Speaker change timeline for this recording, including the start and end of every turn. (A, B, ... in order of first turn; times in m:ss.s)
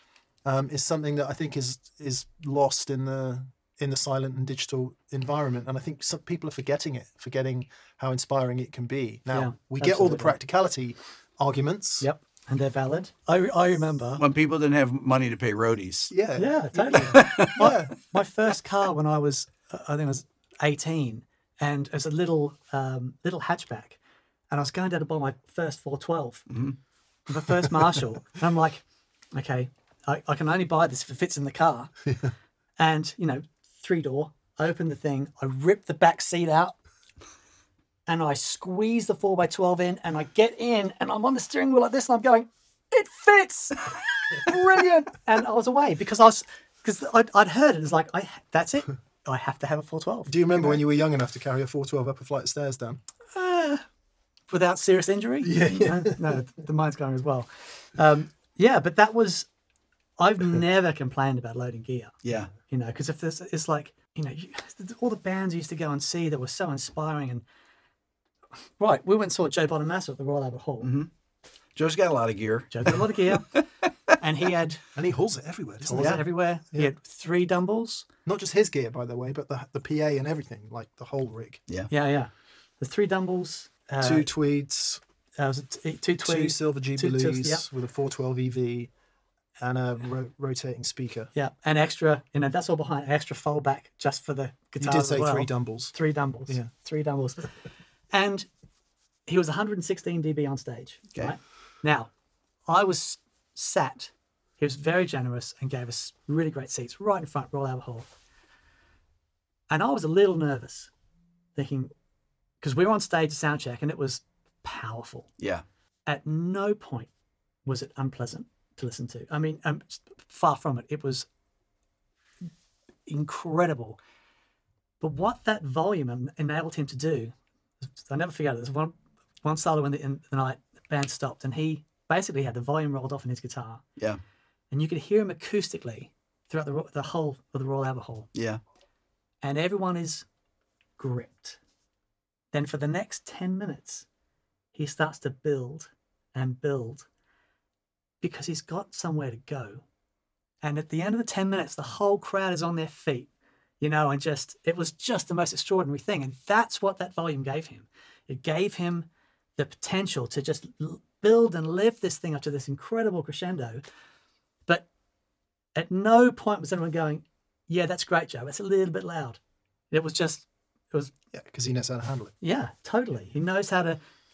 0:00.4-0:12.1 A
0:09.3-0:10.3 B
0:12.0-0:14.2 B
0:14.2-0:16.1 C
0:16.1-0:17.9 A
0:16.4-0:24.0 B
0:17.0-0:17.6 C
0:24.5-0:26.6 B
0:26.5-0:26.8 C
0:27.3-0:32.2 B
0:32.8-0:36.8 B
0:38.1-0:50.8 B
0:50.3-0:53.0 A
0:53.3-0:53.8 B
0:54.5-0:59.5 B
0:55.4-0:56.3 A
1:00.2-1:07.4 B
1:02.2-1:02.5 C
1:08.8-1:10.9 B
1:10.8-1:11.1 C
1:11.8-1:13.9 C
1:12.7-1:13.6 B
1:14.1-1:14.8 B
1:15.0-1:16.9 A
1:15.9-1:18.1 B
1:16.0-1:16.2 C
1:18.2-1:21.6 A
1:21.9-1:24.3 B
1:24.0-1:25.0 A
1:25.4-1:27.6 B
1:26.2-1:28.9 A
1:29.6-1:31.3 A
1:31.4-1:38.5 B
1:34.8-1:35.9 A
1:39.3-1:42.1 B
1:42.7-1:48.1 B
1:49.7-1:50.9 B
1:51.6-1:51.9 B
1:52.6-1:55.3 B
1:55.4-1:55.6 C
1:56.1-1:57.1 B
1:57.6-2:01.3 B
2:03.1-2:04.0 B
2:05.0-2:07.3 B
2:08.0-2:13.8 B
2:14.7-2:18.3 B
2:18.3-2:18.6 C
2:19.4-2:20.3 B
2:21.0-2:21.6 B
2:22.5-2:24.1 B
2:24.8-2:27.1 B
2:28.2-2:29.8 B
2:30.6-2:33.3 B
2:33.8-2:43.8 B
2:45.8-2:49.4 B
2:49.9-2:51.1 B
2:51.3-2:52.3 A
2:52.4-2:54.0 B